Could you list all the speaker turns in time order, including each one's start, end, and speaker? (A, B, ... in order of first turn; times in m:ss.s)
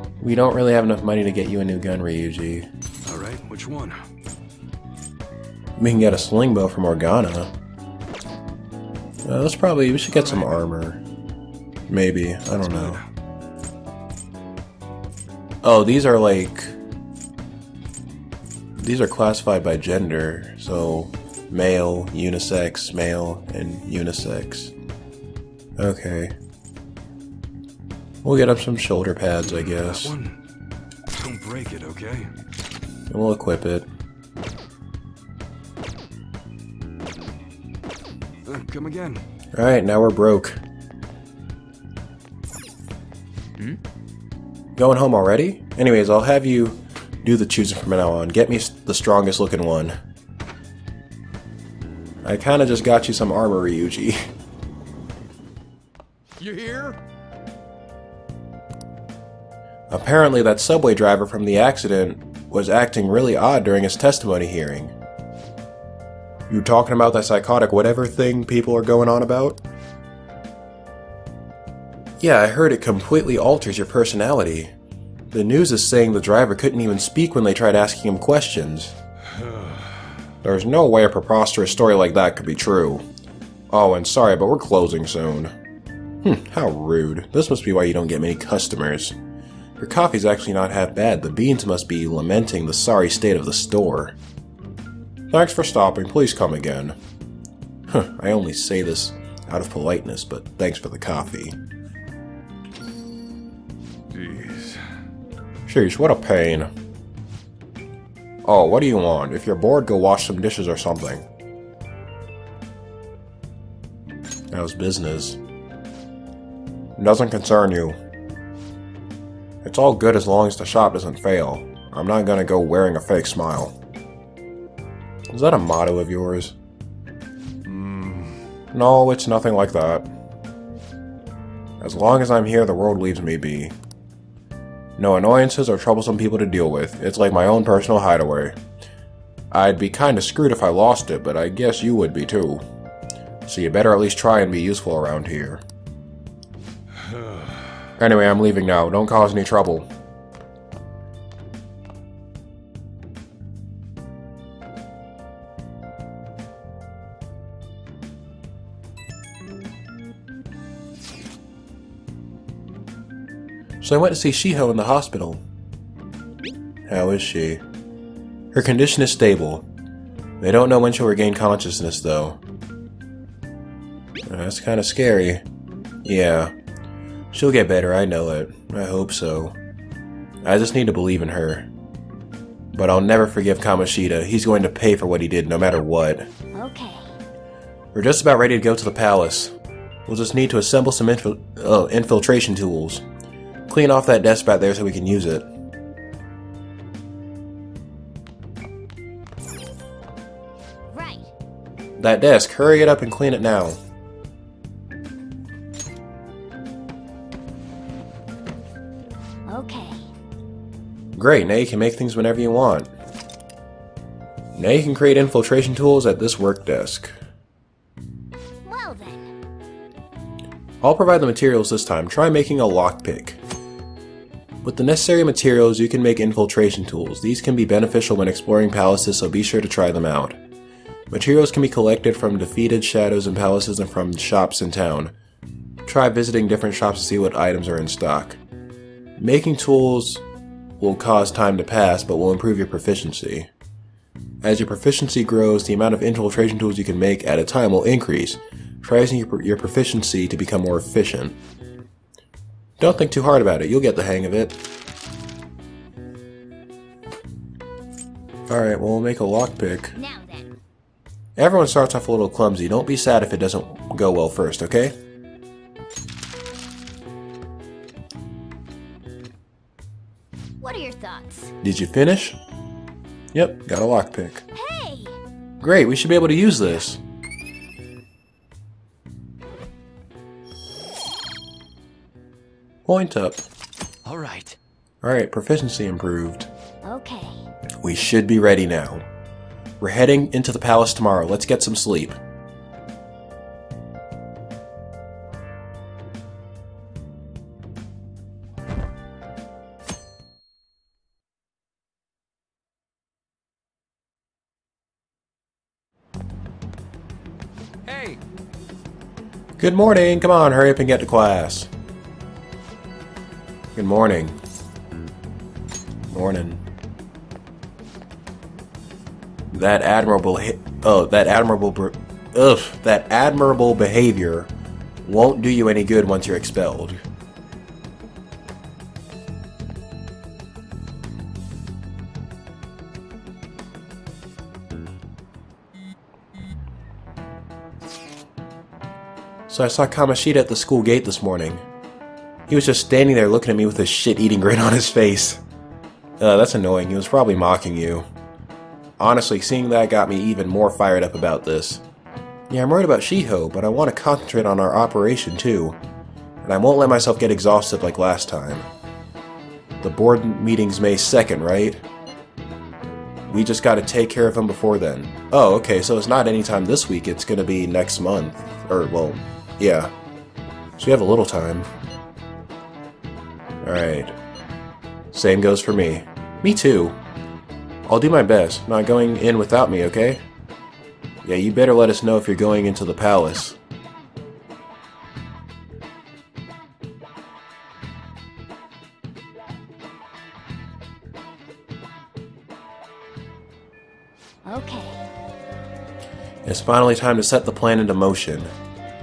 0:00.2-0:02.7 A
0:03.0-0:04.0 B
0:05.8-0:07.5 A
0:09.2-0:11.0 A
0:10.1-0:10.6 B
0:11.9-0:13.0 A
0:12.5-0:13.0 B
0:15.6-0:16.8 A
0:18.8-0:24.7 A
0:25.8-0:26.3 A
0:28.2-0:30.1 A
0:29.5-0:30.4 B
0:31.1-0:32.3 B
0:33.1-0:33.9 A
0:38.4-0:39.2 B
0:39.6-0:40.6 A
0:44.8-0:50.0 A
0:52.2-0:54.2 A
0:56.4-0:57.0 B
0:59.9-1:04.9 A
1:06.5-1:09.6 A
1:12.2-1:14.7 A
1:15.3-1:18.9 A
1:20.4-1:23.0 A
1:23.7-1:25.5 A
1:26.2-1:29.2 A
1:29.8-1:34.2 A
1:35.3-1:37.0 A
1:37.9-1:41.6 A
1:44.1-1:44.8 B
1:45.7-1:46.7 A
1:48.4-1:51.2 A
1:54.5-1:55.4 A
1:57.0-1:58.0 A
1:59.6-2:03.7 A
2:05.3-2:06.6 A
2:07.7-2:08.3 B
2:08.7-2:10.1 A
2:11.8-2:13.7 A
2:15.0-2:18.6 A
2:19.5-2:22.6 A
2:23.4-2:25.6 A
2:28.0-2:29.9 A
2:43.8-2:45.4 A
2:46.9-2:47.6 A
2:48.5-2:49.7 A
2:50.4-2:52.4 A
2:54.3-2:55.4 A
2:56.0-2:56.5 A
2:57.3-2:59.6 A
3:00.4-3:01.7 A
3:02.7-3:06.3 A
3:06.6-3:07.2 C
3:07.9-3:09.5 A
3:10.1-3:13.0 A
3:13.7-3:15.5 A
3:20.9-3:21.3 C
3:22.0-3:23.8 A
3:29.5-3:30.1 C
3:31.2-3:32.9 A
3:34.6-3:37.2 A
3:38.6-3:39.3 C
3:40.8-3:43.4 A
3:44.6-3:50.4 A
3:51.1-3:55.1 A
3:55.9-3:58.4 A
3:59.2-4:00.2 A
4:00.8-4:03.5 A
4:04.4-4:11.4 A
4:12.8-4:14.6 A
4:18.5-4:20.0 A
4:19.9-4:20.5 C
4:21.4-4:25.0 A
4:30.6-4:31.5 C
4:31.6-4:32.4 A
4:33.3-4:34.4 A
4:34.5-4:35.2 C
4:35.6-4:37.0 A
4:42.9-4:43.4 A
4:44.1-4:44.6 B
4:45.0-4:46.5 A
4:46.8-4:47.5 C
4:47.8-4:49.1 A
4:49.8-4:52.2 A
5:07.9-5:08.2 B
5:09.6-5:11.7 A
5:13.8-5:14.4 A
5:16.1-5:16.6 A
5:19.5-5:24.5 A
5:25.0-5:27.0 A
5:39.5-5:41.6 A
5:42.5-5:45.4 A
5:46.2-5:48.1 A
5:49.0-5:51.8 A
5:52.5-5:55.8 A
5:56.4-5:58.7 A
5:59.8-6:01.8 A
6:03.3-6:09.9 A
6:10.8-6:11.7 A
6:13.6-6:14.1 A
6:15.1-6:17.0 A
6:17.9-6:20.2 A
6:21.2-6:23.6 A
6:34.5-6:35.1 C
6:36.4-6:38.5 A